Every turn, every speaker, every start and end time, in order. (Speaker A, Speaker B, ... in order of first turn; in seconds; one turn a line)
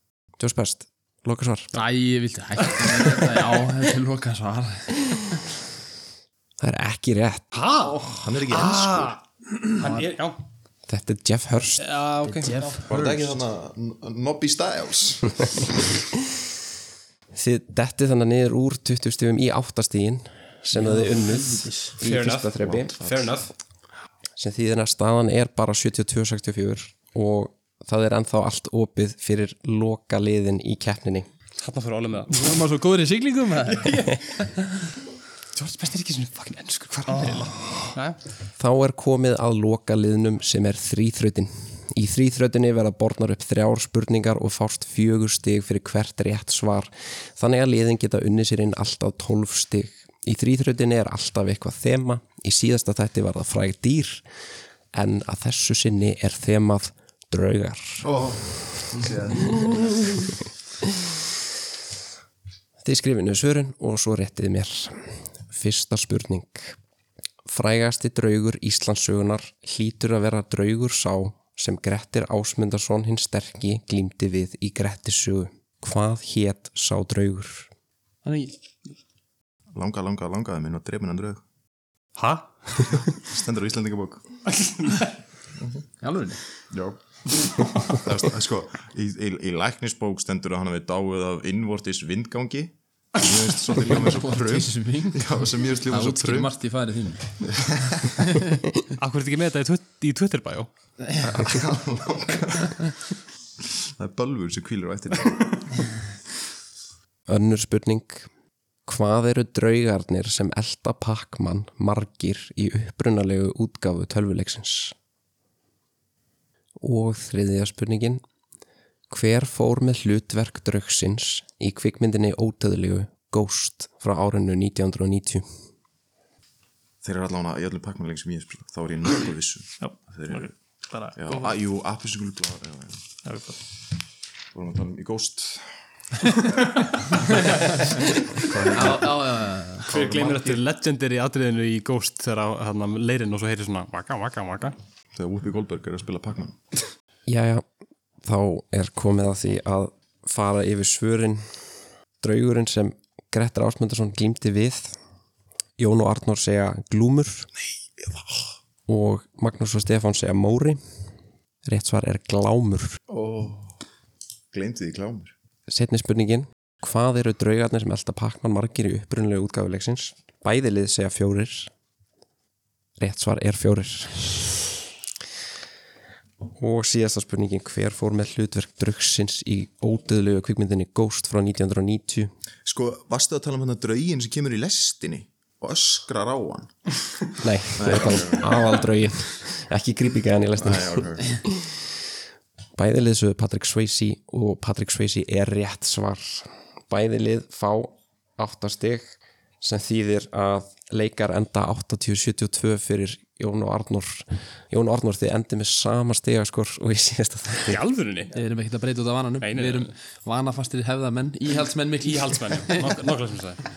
Speaker A: 0.4-1.7
Speaker B: 1.7-5.4
Speaker C: 2.6-3.3
Speaker A: 6.6-7.5
Speaker C: 7.5-10.4
Speaker B: 7.8-8.2
Speaker D: 8.2-9.1
Speaker B: 9.6-10.1
Speaker A: 10.9-11.8
Speaker C: 11.8-13.1
Speaker B: 12.2-13.3
Speaker D: 12.8-15.6
Speaker A: 17.3-23.0
Speaker B: 20.7-21.9
Speaker C: 22.0-23.5
Speaker D: 22.6-23.3
Speaker A: 24.4-31.3
Speaker C: 31.6-32.5
Speaker B: 32.3-34.6
Speaker C: 33.7-34.5
Speaker C: 35.5-38.2
Speaker B: 37.1-37.8
Speaker A: 38.6-54.2
Speaker A: 54.9-58.1
Speaker D: 58.0-60.1
Speaker A: 62.8-66.8
Speaker A: 67.5-77.7
Speaker B: 78.2-78.6
Speaker D: 79.7-81.4
Speaker C: 82.2-83.0
Speaker D: 83.1-84.2
Speaker C: 84.5-85.1
Speaker B: 86.0-86.4
Speaker D: 86.7-87.0
Speaker D: 87.8-96.5
Speaker B: 93.7-97.4
Speaker D: 97.8-98.1
Speaker B: 98.0-98.6
Speaker C: 98.9-100.7
Speaker D: 101.2-103.0
Speaker D: 104.0-105.9
Speaker A: 107.3-108.3
Speaker A: 108.8-115.0
Speaker A: 116.8-118.2
Speaker A: 119.1-125.4
Speaker D: 127.0-130.5
Speaker E: 129.8-131.6
Speaker D: 131.2-133.0
Speaker E: 133.2-133.6
Speaker D: 134.5-135.7
Speaker B: 137.4-137.9
Speaker D: 138.3-139.2
Speaker B: 138.7-139.9
Speaker C: 139.8-144.7
Speaker D: 139.8-140.6
Speaker D: 145.2-146.6
Speaker A: 147.3-147.6
Speaker A: 148.2-154.9
Speaker A: 155.8-157.5
Speaker D: 157.6-158.5
Speaker A: 158.9-160.8
Speaker A: 161.6-163.0
Speaker D: 163.1-163.7
Speaker D: 164.5-165.3
Speaker A: 165.7-171.7
Speaker A: 173.0-174.7
Speaker A: 176.5-182.3
Speaker D: 182.6-186.9
Speaker A: 187.4-191.8
Speaker D: 187.7-188.7
Speaker D: 190.6-191.4
Speaker A: 192.8-199.1
Speaker A: 199.6-207.8
Speaker C: 207.7-208.3
Speaker B: 208.3-212.9
Speaker C: 209.4-209.9
Speaker C: 212.0-213.6